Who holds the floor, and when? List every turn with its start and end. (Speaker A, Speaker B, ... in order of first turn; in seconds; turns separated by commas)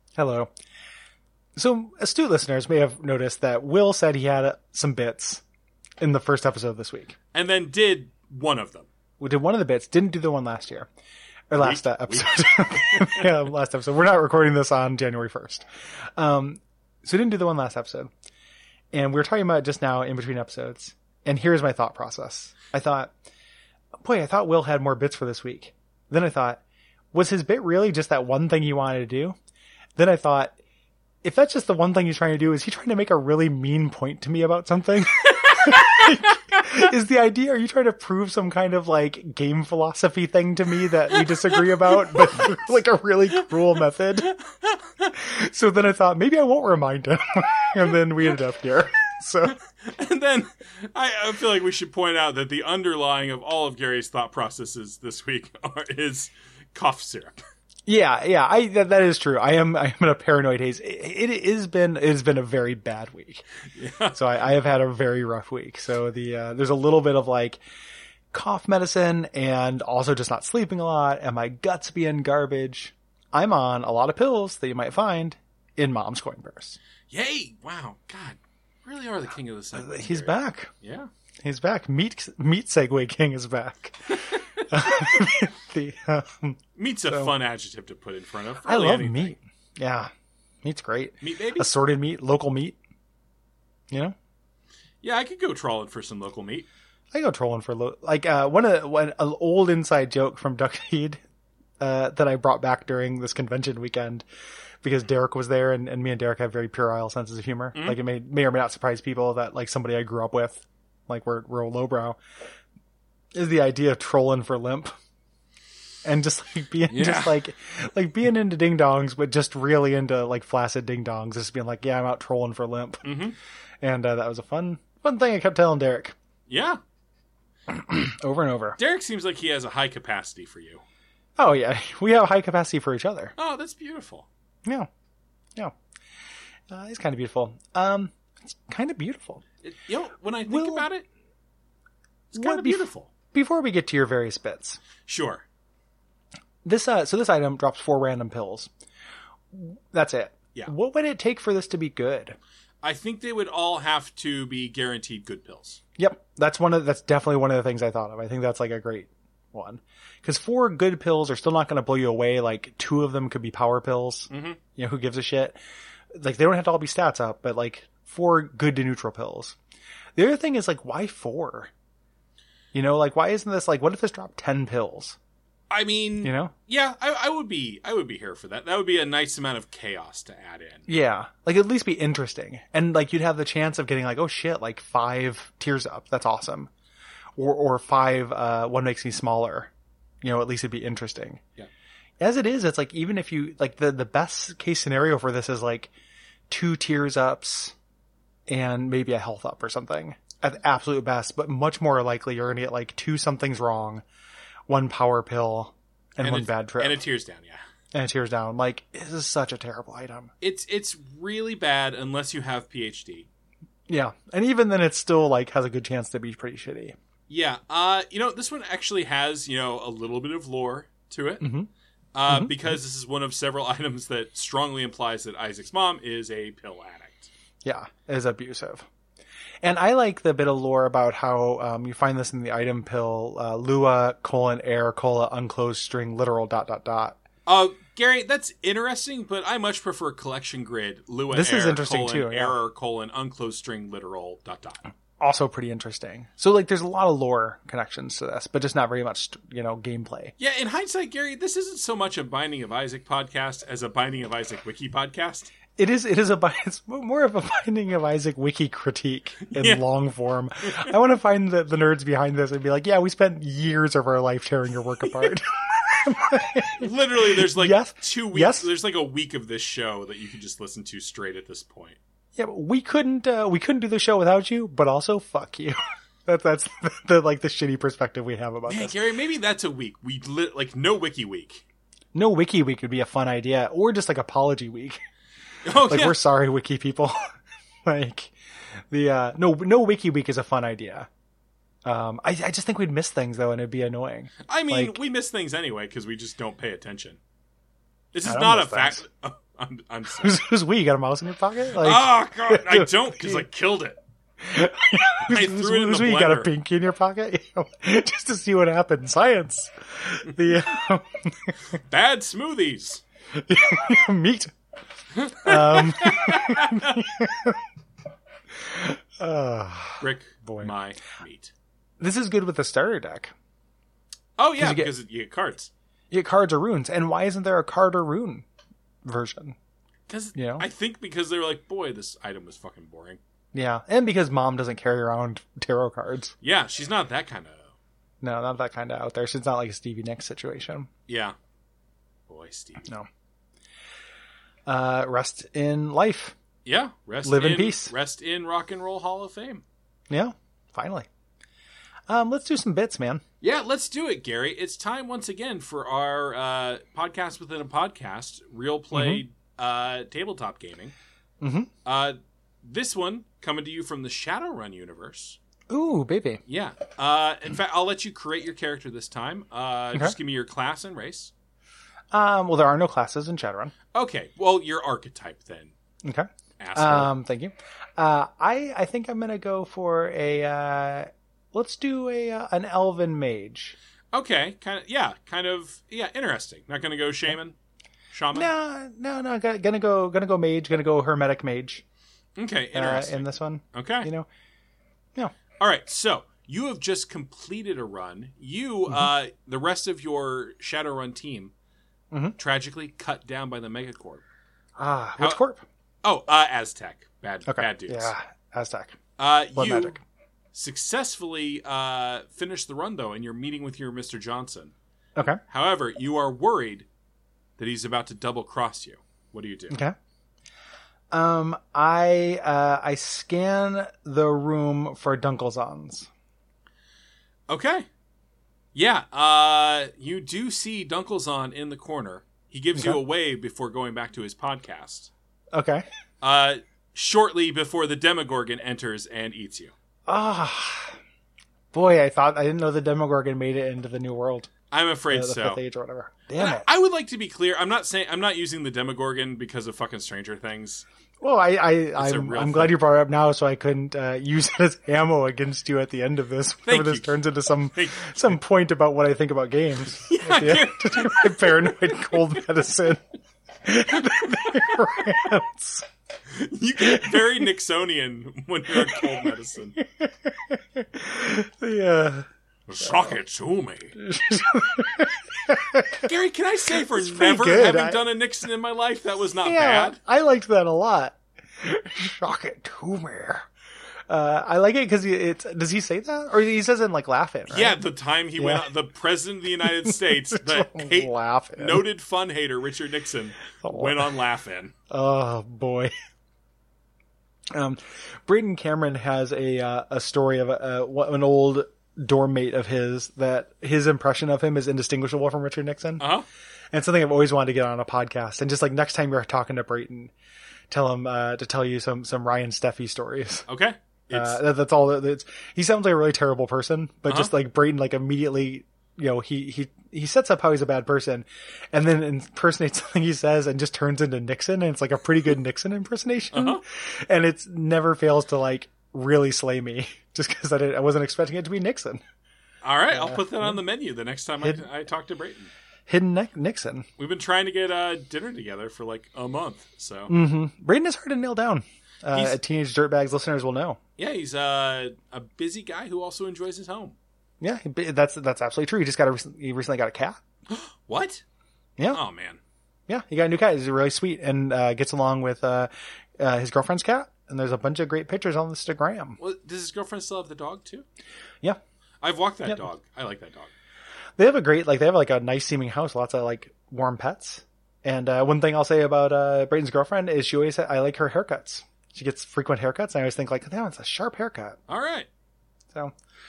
Speaker A: 0.1-0.5, Speaker A: 1.6-5.4, Speaker A: 6.0-7.2, Speaker B: 7.3-8.9, Speaker A: 9.2-10.9, Speaker A: 11.5-15.6, Speaker B: 11.6-13.3, Speaker A: 16.2-18.1, Speaker A: 18.9-23.1, Speaker A: 24.0-26.6, Speaker A: 27.1-29.4, Speaker A: 29.9-30.6, Speaker A: 31.2-44.3, Speaker B: 35.4-36.1, Speaker B: 41.2-42.7, Speaker B: 44.3-45.1, Speaker A: 45.1-49.6, Speaker B: 49.5-57.4, Speaker A: 57.9-63.4, Speaker B: 63.7-64.2, Speaker A: 64.1-67.6, Speaker A: 68.3-76.8, Speaker B: 77.1-81.1, Speaker A: 79.7-80.7, Speaker A: 81.4-84.1, Speaker B: 84.3-84.6, Speaker A: 84.7-87.3, Speaker B: 86.8-89.3, Speaker A: 88.6-90.1, Speaker A: 90.6-92.8, Speaker B: 91.2-91.7, Speaker A: 93.9-94.1, Speaker B: 95.0-96.7, Speaker A: 97.1-101.2, Speaker A: 101.8-104.2, Speaker A: 104.8-112.2, Speaker B: 107.7-108.0, Speaker A: 113.3-114.9, Speaker A: 116.0-123.2, Speaker B: 116.9-117.4, Speaker B: 123.0-123.3, Speaker A: 123.8-126.1, Speaker B: 126.5-126.8, Speaker A: 127.7-128.8, Speaker B: 128.8-130.8, Speaker A: 131.4-133.3, Speaker B: 133.4-134.3, Speaker A: 136.7-139.4, Speaker B: 139.6-141.1, Speaker A: 140.5-140.9, Speaker B: 142.3-143.1, Speaker A: 142.3-144.8, Speaker B: 145.0-145.4, Speaker A: 146.6-148.7, Speaker A: 149.5-152.4, Speaker B: 152.8-155.8, Speaker A: 156.0-165.6, Speaker B: 164.3-164.6, Speaker A: 166.1-169.6, Speaker A: 170.2-171.7, Speaker A: 172.7-175.2, Speaker B: 175.7-180.8, Speaker A: 176.2-176.5, Speaker A: 180.9-186.7, Speaker A: 187.4-189.7, Speaker A: 190.2-191.4, Speaker A: 192.2-195.9, Speaker A: 196.5-197.7, Speaker A: 198.5-204.0, Speaker A: 204.7-207.1, Speaker B: 206.2-207.6, Speaker A: 207.9-210.3, Speaker B: 210.4-213.3, Speaker A: 213.9-216.9, Speaker B: 217.3-221.5, Speaker A: 221.4-221.7, Speaker B: 222.1-227.3, Speaker A: 222.3-222.5, Speaker A: 227.6-228.8, Speaker A: 229.6-237.2, Speaker B: 237.4-244.8, Speaker A: 241.3-242.6, Speaker A: 245.2-250.3, Speaker B: 250.4-255.5, Speaker A: 255.8-268.7, Speaker B: 259.4-259.8, Speaker B: 266.8-272.0, Speaker A: 272.4-279.0, Speaker B: 278.7-281.6, Speaker A: 282.1-285.0, Speaker B: 285.6-286.2, Speaker A: 285.8-287.2, Speaker A: 287.9-288.3, Speaker A: 288.9-291.1, Speaker A: 291.8-295.0, Speaker B: 294.5-297.2, Speaker B: 298.1-300.4, Speaker A: 298.2-299.0, Speaker A: 300.2-303.4, Speaker B: 301.8-304.0, Speaker A: 304.4-311.5, Speaker B: 305.2-306.5, Speaker B: 311.8-313.0, Speaker A: 313.3-314.5, Speaker B: 315.1-316.9, Speaker A: 315.4-317.6, Speaker A: 318.6-320.7, Speaker B: 320.0-321.5, Speaker A: 322.0-323.3, Speaker B: 324.4-325.7, Speaker A: 324.6-324.9, Speaker A: 326.1-328.4, Speaker A: 329.0-329.6, Speaker B: 330.1-333.2, Speaker A: 330.3-330.6, Speaker A: 333.5-336.3, Speaker B: 336.4-337.7, Speaker A: 338.2-340.9, Speaker B: 341.1-341.4, Speaker B: 342.3-342.9, Speaker A: 344.6-346.3, Speaker B: 346.6-349.6, Speaker A: 347.2-347.9, Speaker A: 350.1-351.1, Speaker A: 352.1-353.2, Speaker B: 353.4-360.9, Speaker A: 358.9-359.2, Speaker A: 361.4-361.7, Speaker B: 361.8-365.4, Speaker A: 365.7-366.4, Speaker B: 366.5-371.3, Speaker A: 372.1-373.7, Speaker B: 373.9-375.7, Speaker A: 376.0-383.8, Speaker B: 376.6-377.1, Speaker B: 384.1-387.5, Speaker B: 388.1-388.5, Speaker A: 388.3-391.8, Speaker B: 392.4-394.1, Speaker A: 392.7-394.3, Speaker B: 395.6-401.5, Speaker A: 402.1-402.4, Speaker B: 402.4-404.2, Speaker A: 404.8-405.6, Speaker B: 406.0-408.1, Speaker A: 407.4-409.0, Speaker B: 409.2-410.0, Speaker A: 409.5-410.0, Speaker B: 410.5-414.7, Speaker A: 415.1-415.4, Speaker B: 415.5-416.9, Speaker B: 417.6-419.8, Speaker A: 419.7-419.9, Speaker A: 421.1-426.1, Speaker B: 427.5-427.9, Speaker B: 428.7-435.1, Speaker A: 435.5-435.8, Speaker B: 436.2-439.7, Speaker A: 440.1-440.9, Speaker A: 441.7-444.5, Speaker B: 444.7-445.6, Speaker A: 445.1-446.7, Speaker B: 446.3-450.8, Speaker A: 451.2-463.0, Speaker B: 451.9-452.8, Speaker B: 456.6-457.2, Speaker B: 457.7-458.4, Speaker B: 460.0-461.7, Speaker A: 463.6-465.9, Speaker B: 464.0-465.0, Speaker B: 466.3-469.8, Speaker A: 466.8-467.5, Speaker A: 468.7-472.2, Speaker B: 472.7-474.0, Speaker A: 472.8-473.1, Speaker A: 474.0-476.1, Speaker B: 476.0-480.0, Speaker A: 476.7-478.0, Speaker A: 479.4-483.5, Speaker A: 484.1-487.8, Speaker B: 487.5-494.7, Speaker A: 488.4-488.7, Speaker A: 489.6-491.9, Speaker A: 493.6-494.1, Speaker A: 494.9-495.9, Speaker A: 497.5-506.1, Speaker B: 506.0-506.2, Speaker A: 506.7-510.1, Speaker A: 510.7-513.5, Speaker B: 513.5-514.4, Speaker A: 514.1-532.0, Speaker B: 526.3-526.6, Speaker B: 532.6-535.5, Speaker A: 532.9-533.6, Speaker A: 535.9-536.9, Speaker B: 537.0-540.1, Speaker A: 540.1-543.8, Speaker B: 542.1-542.4, Speaker B: 544.0-547.0, Speaker A: 547.4-550.2, Speaker B: 550.5-551.2, Speaker B: 551.9-552.4, Speaker A: 552.9-559.2, Speaker B: 559.2-560.8, Speaker B: 562.0-563.5, Speaker A: 564.2-574.6, Speaker B: 574.7-575.1